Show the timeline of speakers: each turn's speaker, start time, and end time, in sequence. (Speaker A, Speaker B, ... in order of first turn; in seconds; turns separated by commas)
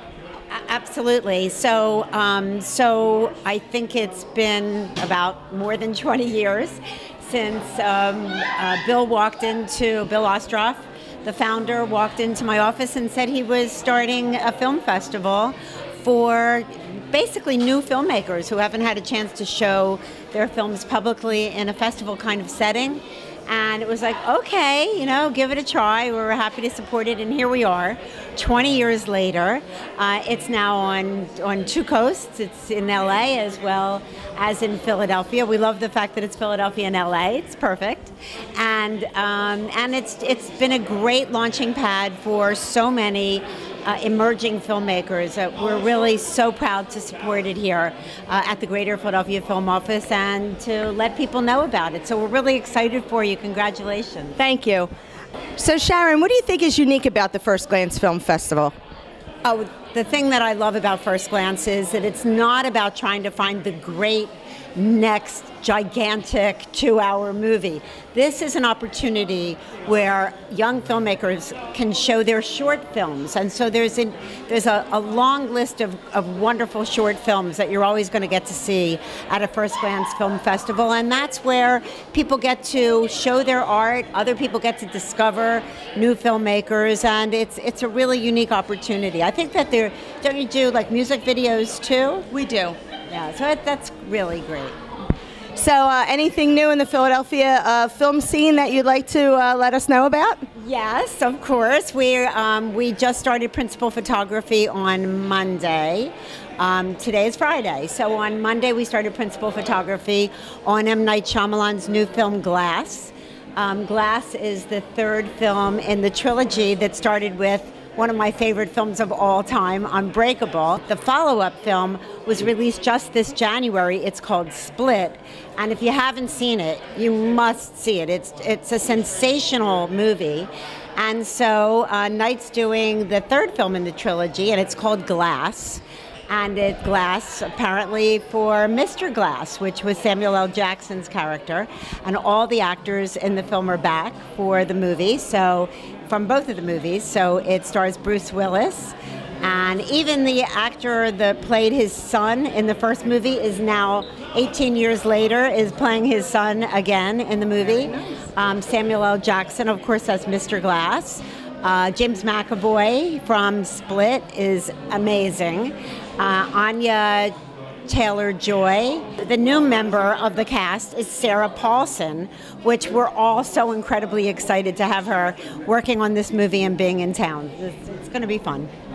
Speaker A: 0.5-54.4, Speaker B: 54.4-54.9, Speaker B: 55.6-58.7, Speaker A: 59.4-92.3, Speaker B: 92.3-92.8, Speaker A: 93.1-94.7, Speaker B: 95.5-100.4, Speaker A: 100.5-167.3, Speaker B: 157.8-158.2, Speaker A: 167.9-178.7